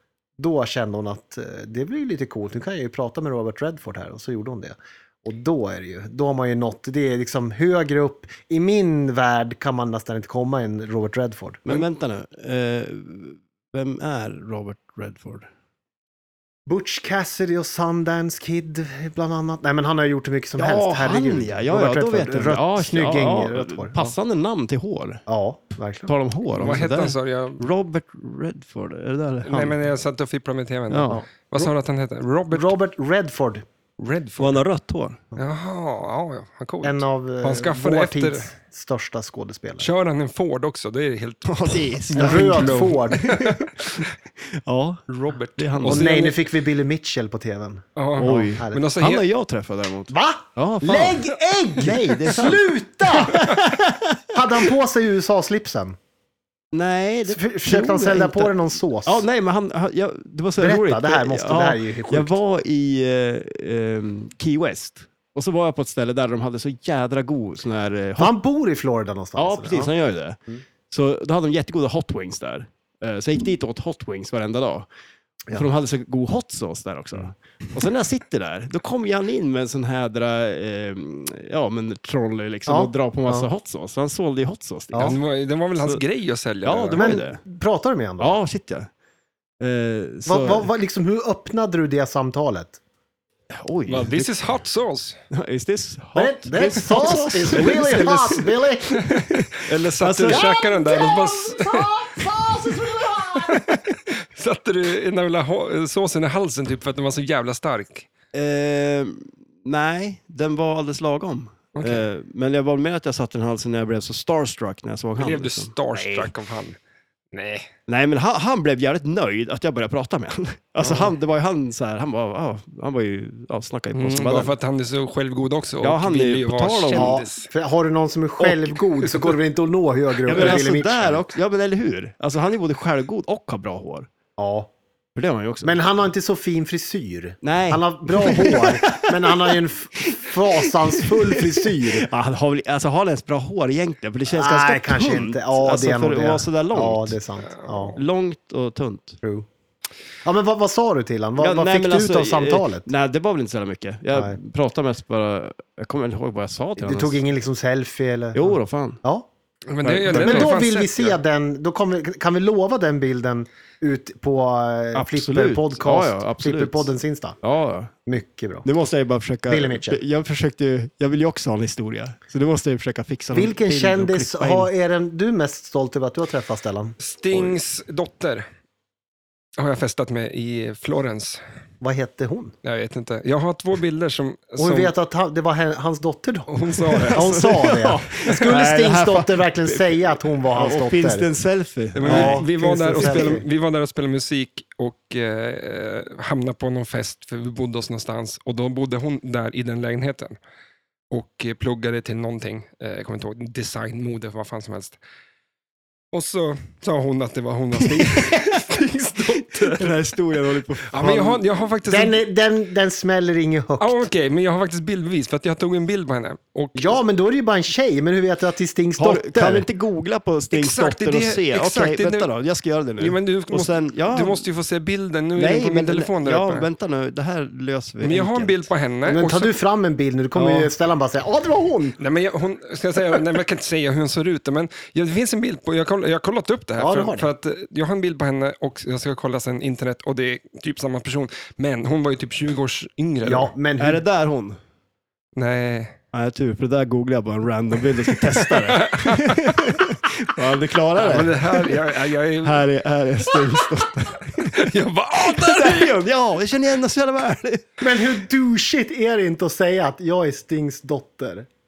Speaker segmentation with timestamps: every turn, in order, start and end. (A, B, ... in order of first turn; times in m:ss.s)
0:00.4-0:11.8 A
0:11.6-0:15.5 B
0:16.7-0:24.1 A
0:20.6-0:25.2 B
0:25.3-0:26.1 A
0:26.1-0:29.8 B
0:26.5-0:27.6 C
0:29.4-0:32.7 C
0:30.9-0:31.2 B
0:31.1-0:31.7 A
0:32.5-0:33.6 A
0:34.0-0:34.6 C
0:34.4-0:35.2 B
0:35.4-0:38.5 C
0:36.8-0:39.9 A
0:39.8-0:44.1 C
0:41.4-0:46.1 B
0:42.1-0:43.3 A
0:45.1-0:46.3 C
0:45.8-0:48.8 A
0:48.0-0:49.2 C
0:48.2-0:54.7 B
0:50.1-0:53.5 A
0:54.3-0:56.0 A
0:56.7-1:08.3 B
0:57.3-0:59.3 A
1:00.6-1:02.4 A
1:08.2-1:09.9 A
1:09.4-1:10.4 B
1:10.9-1:14.9 B
1:15.5-1:25.2 B
1:22.6-1:23.5 A
1:25.0-1:27.1 C
1:26.6-1:27.4 B
1:27.0-1:28.4 A
1:28.2-1:28.9 B
1:29.6-1:30.7 B
1:30.2-1:32.8 A
1:33.5-1:34.4 B
1:33.9-1:35.2 C
1:35.3-1:40.5 B
1:36.2-1:39.0 A
1:39.6-1:42.2 C
1:40.2-1:43.6 A
1:43.3-1:48.1 C
1:48.3-1:56.3 B
1:51.7-1:52.0 C
1:55.2-1:56.8 C
1:57.3-1:57.7 C
1:57.9-2:04.5 B
2:03.9-2:07.5 C
2:05.8-2:07.2 B
2:06.9-2:11.2 A
2:08.4-2:08.8 B
2:10.2-2:14.1 B
2:14.4-2:14.7 A
2:15.1-2:15.8 B
2:15.6-2:22.1 A
2:17.4-2:27.2 B
2:24.3-2:28.0 A
2:27.4-2:28.0 C
2:27.9-2:29.2 B
2:30.2-2:32.9 A
2:31.4-2:37.2 B
2:36.8-2:39.3 A
2:38.3-2:39.0 B
2:39.7-2:41.2 C
2:39.8-2:40.6 B
2:40.1-2:47.4 A
2:44.9-2:47.9 B
2:48.0-2:48.7 A
2:48.6-2:54.7 B
2:49.5-2:50.0 A
2:53.3-2:57.6 A
2:57.0-2:58.4 C
2:59.6-3:01.4 C
3:01.8-3:02.5 A
3:02.6-3:04.9 C
3:04.6-3:06.5 A
3:06.5-3:07.5 C
3:06.8-3:13.4 B
3:07.1-3:11.3 A
3:12.0-3:20.4 C
3:12.0-3:13.4 A
3:21.1-3:25.0 C
3:26.1-3:29.9 C
3:27.8-3:28.6 B
3:29.5-3:31.5 B
3:30.8-3:32.2 C
3:31.8-3:34.0 A
3:33.8-3:37.0 C
3:36.7-3:39.7 A
3:39.0-3:44.4 B
3:40.5-3:42.3 C
3:43.0-3:46.7 C
3:45.4-3:48.7 B
3:48.0-3:49.5 C
3:49.0-3:52.0 A
3:50.3-3:50.7 B
3:52.0-4:03.5 C
3:56.8-3:57.3 A
4:03.2-4:04.0 A
4:03.8-4:04.6 B
4:05.4-4:06.0 C
4:06.1-4:11.8 B
4:08.3-4:09.9 C
4:11.0-4:12.6 C
4:12.4-4:14.7 B
4:14.3-4:15.9 C
4:15.2-4:17.7 B
4:17.8-4:21.5 A